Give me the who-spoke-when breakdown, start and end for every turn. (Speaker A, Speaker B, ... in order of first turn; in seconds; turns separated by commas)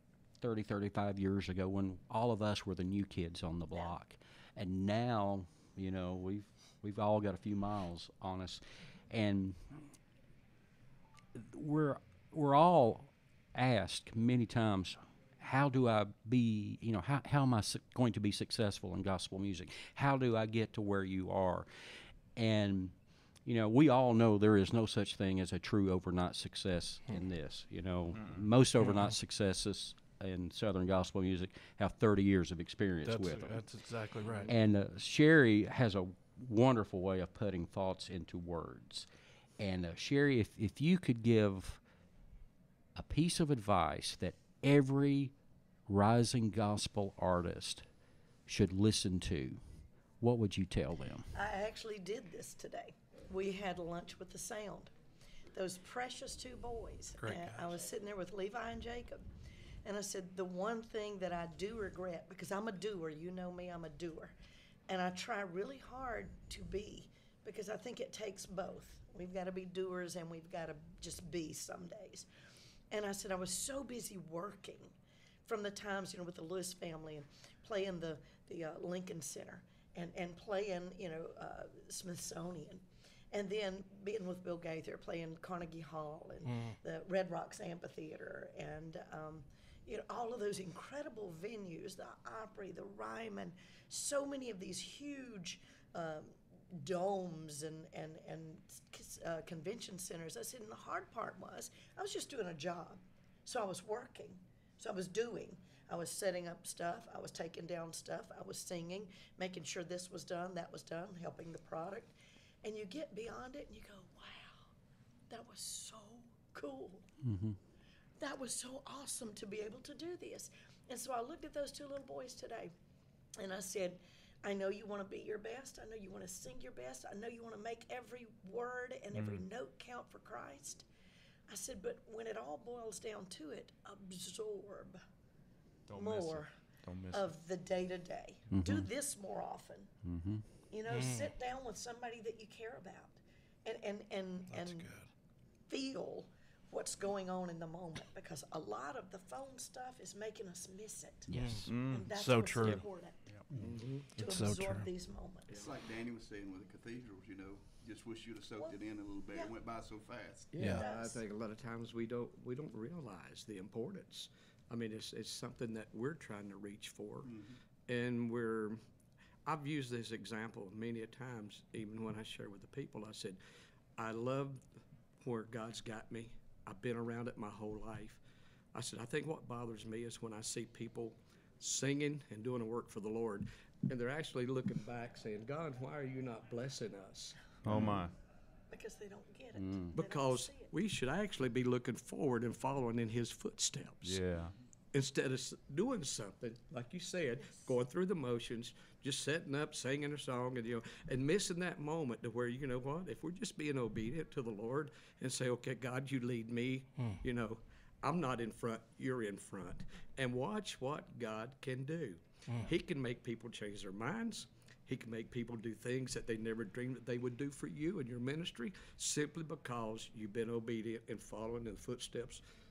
Speaker A: 0.4-9.8, Speaker A: 11.3-33.6, Speaker B: 28.1-28.4, Speaker C: 28.8-29.1, Speaker C: 33.0-34.5, Speaker D: 34.2-34.5, Speaker A: 34.5-39.1, Speaker A: 39.6-41.8, Speaker A: 43.0-45.3, Speaker A: 45.9-47.9, Speaker A: 48.5-49.6, Speaker A: 50.2-51.3, Speaker E: 51.4-54.9, Speaker E: 55.5-59.2, Speaker C: 57.2-57.5, Speaker E: 59.9-64.3, Speaker E: 64.9-72.3, Speaker E: 72.9-74.9, Speaker E: 75.5-114.7, Speaker C: 86.5-86.8, Speaker E: 115.3-117.0, Speaker A: 117.2-117.6, Speaker E: 118.2-122.7, Speaker E: 123.4-130.8, Speaker B: 129.2-129.4, Speaker E: 131.5-135.0, Speaker B: 135.9-137.3, Speaker E: 135.9-136.5, Speaker E: 137.1-139.9, Speaker A: 138.5-138.9, Speaker A: 140.0-140.4, Speaker E: 140.7-145.0, Speaker C: 140.9-141.3, Speaker C: 144.5-145.1, Speaker E: 145.7-153.2, Speaker A: 151.3-151.7, Speaker C: 151.3-152.8, Speaker B: 151.7-152.1, Speaker D: 153.6-154.2, Speaker C: 154.2-154.9, Speaker E: 154.2-155.5, Speaker F: 155.5-160.6, Speaker D: 160.5-167.3, Speaker C: 160.6-160.8, Speaker E: 160.6-161.2, Speaker F: 167.2-167.6, Speaker D: 167.9-168.8, Speaker D: 169.5-173.4, Speaker D: 174.0-174.7, Speaker D: 175.2-178.2, Speaker D: 178.7-188.0, Speaker B: 187.6-188.1, Speaker E: 188.7-190.7, Speaker A: 189.6-189.9, Speaker D: 189.9-194.2, Speaker B: 194.0-194.5, Speaker D: 194.9-222.4, Speaker C: 212.5-212.7